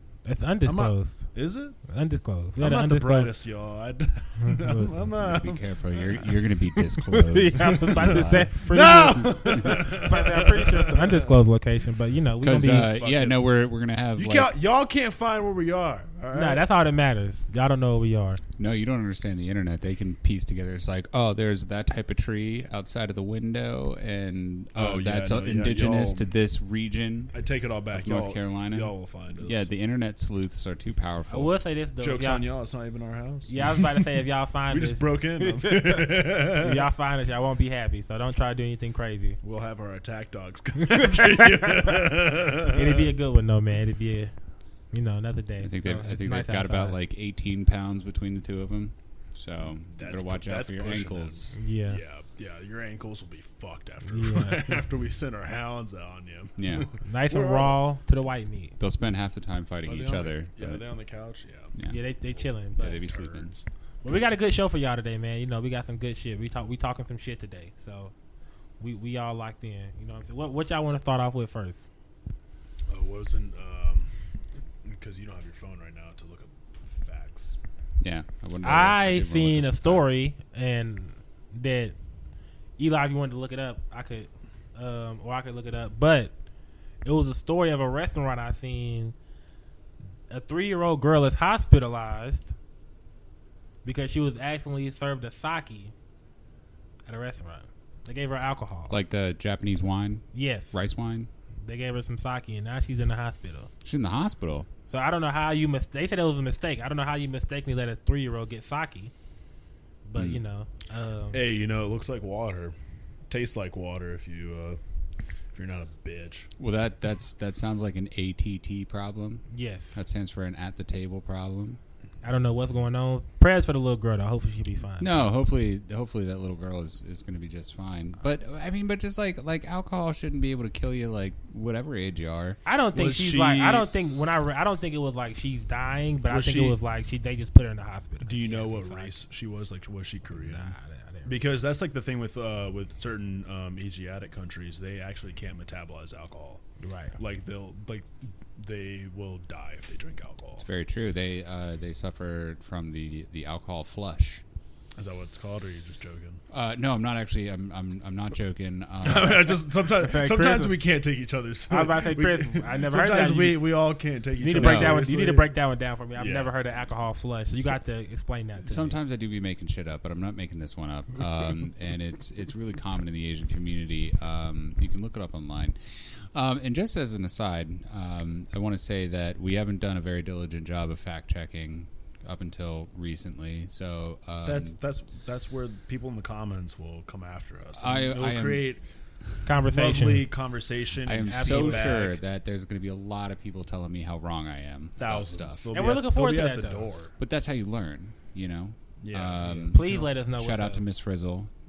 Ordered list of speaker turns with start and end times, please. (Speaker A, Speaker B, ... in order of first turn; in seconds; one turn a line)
Speaker A: 0.2-1.2
Speaker B: 0.7-1.8
Speaker A: 1.9-3.3
Speaker B: 2.6-6.2
Speaker A: 4.4-5.0
Speaker C: 5.1-8.5
Speaker A: 6.9-13.3
Speaker B: 7.6-11.3
Speaker C: 12.4-14.5
Speaker B: 14.2-16.6
Speaker A: 16.3-18.4
Speaker C: 18.6-27.3
Speaker B: 24.7-26.3
Speaker B: 27.3-29.6
Speaker C: 27.9-31.6
Speaker A: 31.3-32.4
Speaker B: 32.0-34.0
Speaker A: 33.5-39.4
Speaker B: 34.7-36.8
Speaker B: 39.4-43.0
Speaker A: 41.0-44.3
Speaker A: 44.9-47.0
Speaker C: 45.6-51.5
Speaker B: 49.9-57.8
Speaker A: 51.5-52.0
Speaker A: 54.1-54.8
Speaker C: 56.6-56.9
Speaker A: 57.0-58.8
Speaker C: 58.8-60.8
Speaker B: 59.8-64.3
Speaker A: 61.9-62.8
Speaker C: 62.8-63.5
Speaker A: 64.0-68.1
Speaker A: 68.8-71.9
Speaker B: 72.9-74.1
Speaker B: 74.8-77.6
Speaker C: 78.0-80.1
Speaker A: 78.6-81.9
Speaker A: 82.8-86.3
Speaker A: 87.0-89.1
Speaker A: 90.3-92.5
Speaker A: 93.8-95.9
Speaker A: 97.1-98.9
Speaker C: 98.9-101.3
Speaker A: 100.3-100.8
Speaker A: 101.6-103.7
Speaker C: 103.8-104.7
Speaker A: 104.9-109.1
Speaker A: 110.0-111.4
Speaker B: 111.3-112.7
Speaker B: 113.3-114.8
Speaker B: 115.5-116.5
Speaker C: 116.6-121.8
Speaker A: 119.5-119.9
Speaker A: 122.2-125.3
Speaker C: 125.0-132.6
Speaker A: 132.7-139.1
Speaker B: 132.9-133.9
Speaker B: 136.3-136.8
Speaker B: 138.2-140.7
Speaker A: 140.3-141.3
Speaker B: 141.2-146.6
Speaker A: 146.8-147.2
Speaker B: 147.2-150.6
Speaker C: 150.6-154.4
Speaker B: 154.9-156.4
Speaker C: 156.5-159.6
Speaker B: 159.0-165.5
Speaker A: 160.0-160.8
Speaker A: 161.7-163.7
Speaker A: 164.4-168.9
Speaker C: 164.5-165.0
Speaker B: 166.2-166.5
Speaker C: 168.6-175.8
Speaker C: 176.3-184.7
Speaker B: 184.4-188.8
Speaker C: 187.8-188.6
Speaker A: 189.4-190.3
Speaker B: 189.7-192.2
Speaker C: 191.0-195.7
Speaker A: 191.3-192.0
Speaker B: 195.0-197.1
Speaker A: 195.7-196.8
Speaker C: 197.2-201.5
Speaker B: 199.0-200.1
Speaker A: 199.7-200.8